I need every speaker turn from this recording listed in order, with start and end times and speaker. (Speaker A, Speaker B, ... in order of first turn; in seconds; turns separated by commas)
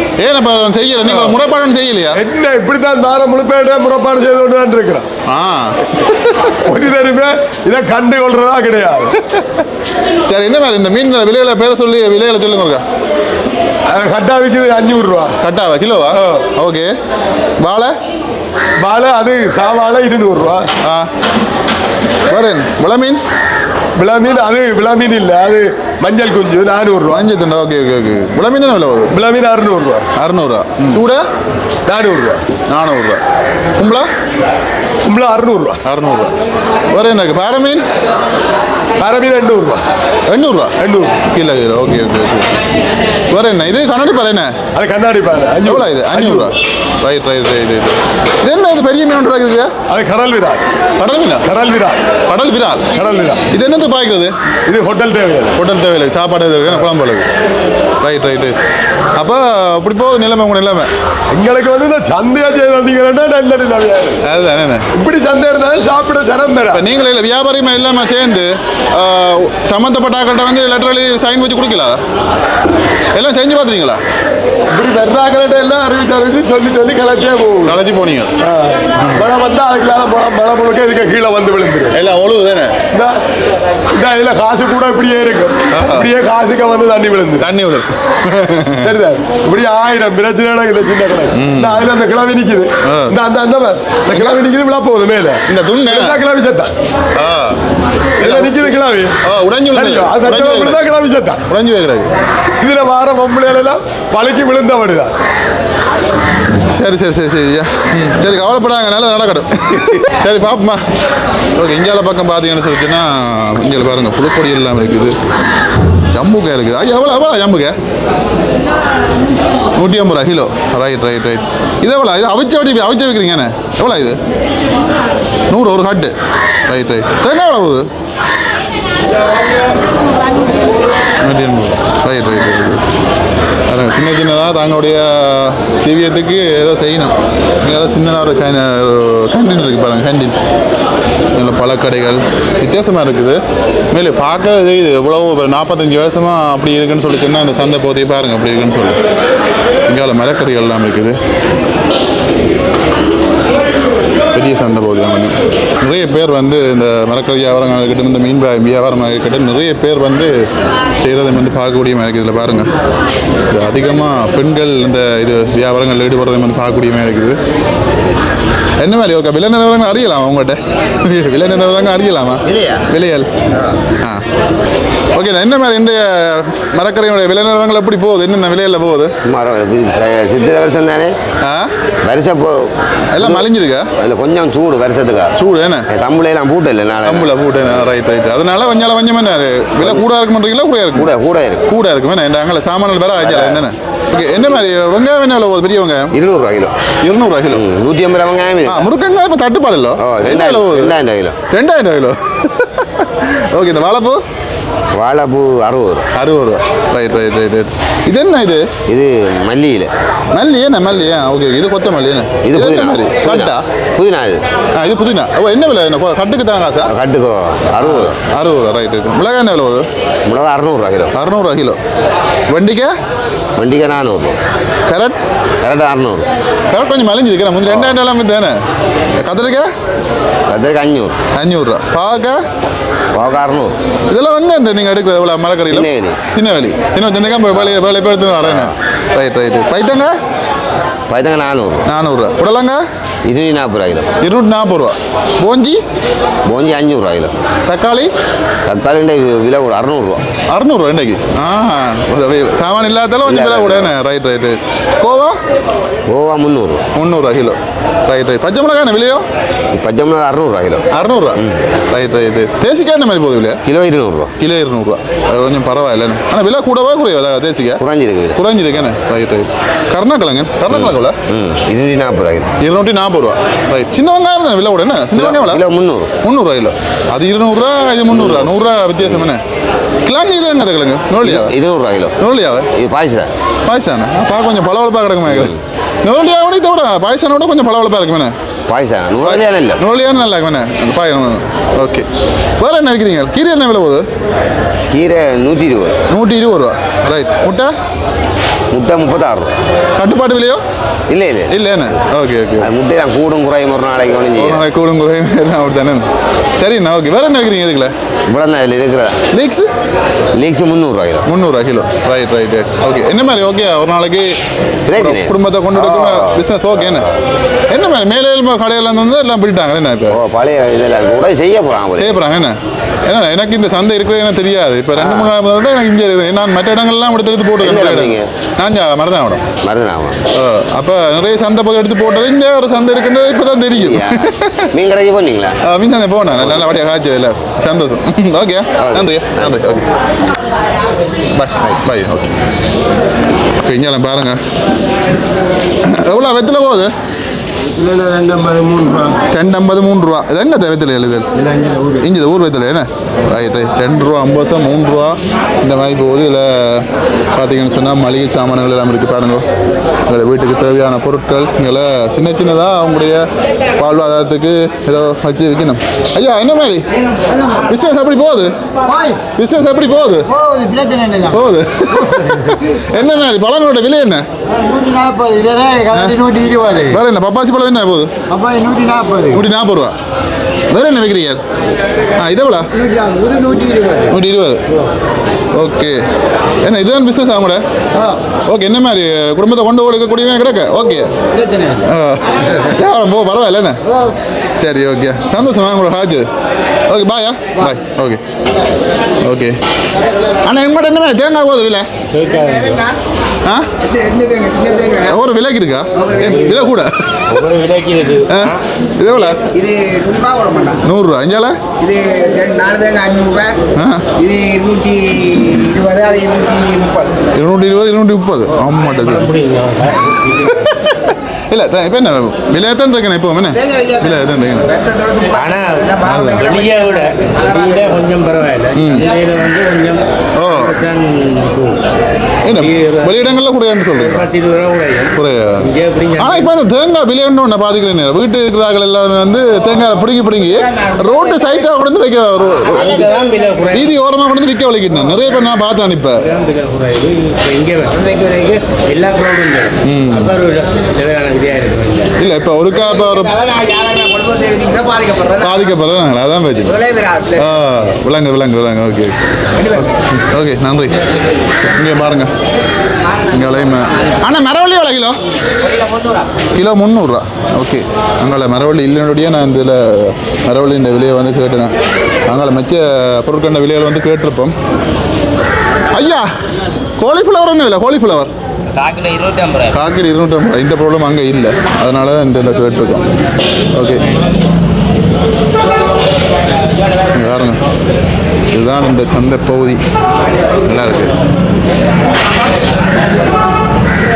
Speaker A: 0.2-2.2, Speaker B: 1.1-1.4, Speaker B: 2.1-5.1, Speaker A: 5.3-6.6, Speaker B: 6.6-9.2, Speaker A: 9.2-9.6, Speaker A: 10.3-12.8, Speaker B: 13.9-15.3, Speaker A: 15.4-16.9, Speaker B: 16.1-16.4, Speaker A: 17.6-18.0, Speaker B: 18.8-20.7, Speaker A: 20.8-21.1, Speaker A: 22.3-23.2, Speaker B: 24.0-27.2, Speaker A: 27.1-29.1, Speaker B: 29.1-30.1, Speaker A: 30.2-31.3, Speaker B: 31.9-32.4, Speaker A: 32.7-33.2, Speaker A: 33.8-34.1, Speaker B: 35.0-35.8, Speaker A: 35.9-36.3, Speaker A: 36.9-37.9, Speaker B: 39.0-39.8, Speaker A: 40.3-40.7, Speaker B: 40.8-41.1, Speaker A: 41.3-42.6, Speaker A: 43.3-44.5, Speaker B: 44.8-46.5, Speaker A: 45.7-49.7, Speaker B: 49.9-50.6, Speaker A: 51.0-51.5, Speaker B: 51.5-52.0, Speaker A: 52.3-52.9, Speaker B: 52.9-53.4, Speaker A: 53.5-54.3, Speaker B: 54.7-55.6, Speaker A: 55.5-57.3, Speaker A: 58.0-58.6, Speaker A: 59.2-60.9, Speaker B: 61.3-64.2, Speaker A: 64.2-64.9, Speaker B: 65.0-66.8, Speaker A: 66.7-72.0, Speaker A: 73.1-74.0, Speaker B: 74.7-77.8, Speaker A: 77.7-78.3, Speaker B: 78.4-82.0, Speaker A: 79.0-79.3, Speaker A: 81.9-82.8, Speaker B: 82.9-83.2, Speaker B: 83.9-87.5, Speaker A: 85.7-86.1, Speaker A: 87.4-88.9, Speaker B: 88.8-96.7, Speaker A: 91.3-91.9, Speaker A: 92.8-93.2, Speaker A: 94.1-94.4, Speaker A: 95.5-96.2, Speaker A: 97.2-97.6, Speaker B: 98.2-99.2, Speaker A: 98.2-100.9, Speaker B: 99.7-101.4, Speaker A: 101.5-102.1, Speaker B: 102.6-105.1, Speaker A: 106.7-110.8, Speaker A: 111.5-115.2, Speaker A: 116.1-117.8, Speaker A: 119.8-124.2, Speaker A: 125.5-126.1, Speaker A: 126.7-127.9, Speaker A: 131.2-132.8, Speaker A: 133.7-140.4, Speaker A: 141.3-143.4, Speaker A: 143.9-149.0, Speaker A: 149.9-151.2, Speaker A: 154.3-160.4, Speaker A: 161.0-162.7, Speaker A: 163.5-167.4, Speaker A: 168.8-173.3, Speaker C: 172.4-172.9, Speaker C: 173.5-173.8, Speaker A: 175.1-179.1, Speaker C: 179.3-181.1, Speaker A: 181.4-181.7, Speaker C: 182.1-183.5, Speaker A: 183.1-183.9, Speaker C: 184.0-185.3, Speaker A: 185.4-185.9, Speaker C: 185.9-187.3, Speaker A: 187.1-196.1, Speaker C: 191.0-191.7, Speaker C: 193.2-193.6, Speaker C: 196.1-196.7, Speaker A: 197.0-197.6, Speaker C: 197.5-198.9, Speaker A: 198.7-200.9, Speaker C: 200.0-201.4, Speaker A: 201.5-204.2, Speaker C: 205.0-206.1, Speaker A: 206.2-208.7, Speaker C: 208.9-209.9, Speaker A: 210.3-213.6, Speaker C: 212.4-214.4, Speaker A: 214.8-216.9, Speaker C: 216.9-218.2, Speaker A: 217.8-219.9, Speaker C: 220.3-221.1, Speaker A: 221.1-221.8, Speaker A: 222.5-222.9, Speaker C: 223.6-224.4, Speaker A: 224.9-225.2, Speaker C: 225.6-226.3, Speaker A: 226.7-228.6, Speaker C: 227.7-227.9, Speaker A: 229.2-229.7, Speaker C: 230.5-231.2, Speaker A: 231.4-232.4, Speaker C: 233.2-233.7, Speaker A: 234.1-240.1, Speaker C: 235.7-236.2, Speaker C: 238.4-238.7, Speaker C: 241.1-241.9, Speaker A: 241.9-242.8, Speaker C: 243.3-244.1, Speaker A: 244.2-245.8, Speaker C: 246.5-247.3, Speaker A: 247.7-248.1, Speaker C: 248.7-250.2, Speaker A: 250.5-255.4, Speaker C: 253.3-253.9, Speaker C: 256.1-256.9, Speaker A: 256.9-259.2, Speaker C: 259.8-260.9, Speaker A: 260.9-263.6, Speaker C: 263.7-264.3, Speaker A: 264.4-267.8, Speaker C: 267.8-268.4, Speaker A: 268.3-271.2, Speaker C: 270.7-272.5, Speaker A: 272.6-275.6, Speaker C: 275.2-276.1, Speaker A: 276.2-279.4, Speaker C: 278.1-278.5, Speaker A: 280.1-281.5, Speaker C: 281.2-282.1, Speaker A: 282.2-282.7, Speaker C: 282.8-283.3, Speaker A: 283.7-288.3, Speaker C: 285.3-285.6, Speaker C: 288.7-289.8, Speaker A: 289.2-292.1, Speaker A: 292.6-294.1, Speaker C: 294.9-296.0, Speaker A: 296.1-297.7, Speaker C: 298.7-299.5, Speaker A: 300.0-300.6, Speaker C: 301.1-301.5, Speaker A: 301.5-302.7, Speaker C: 302.6-304.6, Speaker A: 304.4-306.0, Speaker A: 306.6-307.9, Speaker C: 308.3-309.2, Speaker A: 309.3-309.7, Speaker C: 310.4-311.3, Speaker A: 311.2-314.3, Speaker C: 314.9-316.4, Speaker A: 314.9-317.1, Speaker A: 317.7-320.2, Speaker C: 320.1-322.2, Speaker A: 322.0-329.4, Speaker C: 325.0-325.3, Speaker C: 327.6-328.3, Speaker C: 329.6-330.2, Speaker A: 330.3-334.7, Speaker C: 333.8-335.6, Speaker A: 335.6-339.9, Speaker C: 336.4-336.8, Speaker C: 338.8-339.8, Speaker A: 341.3-342.3, Speaker A: 343.6-344.4, Speaker A: 345.8-346.9, Speaker B: 348.1-349.0, Speaker A: 349.3-351.3, Speaker A: 352.0-359.4, Speaker A: 360.1-366.9, Speaker A: 367.6-368.5, Speaker D: 368.9-369.2, Speaker A: 369.3-370.3, Speaker D: 370.4-371.4, Speaker A: 371.3-374.3, Speaker D: 374.8-376.8, Speaker A: 376.9-378.1, Speaker D: 378.4-379.3, Speaker A: 379.3-379.9, Speaker A: 380.7-381.4, Speaker A: 382.2-382.7, Speaker D: 383.0-384.0, Speaker A: 384.1-384.6, Speaker A: 385.6-386.0, Speaker A: 386.6-387.6, Speaker A: 388.5-391.1, Speaker E: 391.3-391.8, Speaker A: 391.8-393.8, Speaker A: 394.6-396.3, Speaker A: 396.9-398.2, Speaker A: 399.2-399.6, Speaker A: 400.4-401.9, Speaker E: 402.1-402.9, Speaker D: 402.3-403.0, Speaker D: 403.8-405.2, Speaker A: 405.1-407.5, Speaker D: 405.9-406.7, Speaker E: 406.2-406.6, Speaker E: 407.3-408.6, Speaker A: 408.3-409.4, Speaker D: 409.5-410.8, Speaker A: 410.8-411.6, Speaker D: 411.8-413.6, Speaker A: 413.8-414.1, Speaker D: 414.2-417.1, Speaker A: 417.4-419.3, Speaker E: 418.9-420.6, Speaker A: 420.0-424.7, Speaker D: 423.5-428.1, Speaker E: 425.3-431.9, Speaker A: 426.1-426.5, Speaker A: 428.8-429.1, Speaker A: 430.4-430.8, Speaker E: 432.4-433.3, Speaker A: 432.4-434.3, Speaker E: 434.0-436.5, Speaker A: 435.1-435.7, Speaker A: 436.2-443.1, Speaker D: 440.4-441.6, Speaker E: 442.5-444.0, Speaker D: 442.7-443.4, Speaker A: 443.7-446.2, Speaker E: 446.2-452.1, Speaker A: 449.8-450.4, Speaker A: 452.2-453.4, Speaker D: 452.7-455.8, Speaker A: 455.4-456.8, Speaker D: 456.6-457.8, Speaker A: 457.4-459.2, Speaker D: 459.6-459.9, Speaker A: 459.7-461.0, Speaker A: 461.6-462.3, Speaker A: 463.3-465.2, Speaker D: 465.6-466.3, Speaker A: 466.6-471.7, Speaker A: 472.3-474.6, Speaker A: 475.9-476.3, Speaker A: 477.0-478.3, Speaker C: 478.8-479.6, Speaker A: 479.7-483.1, Speaker A: 483.7-484.0, Speaker A: 487.1-487.6, Speaker A: 488.5-489.8, Speaker A: 490.6-491.1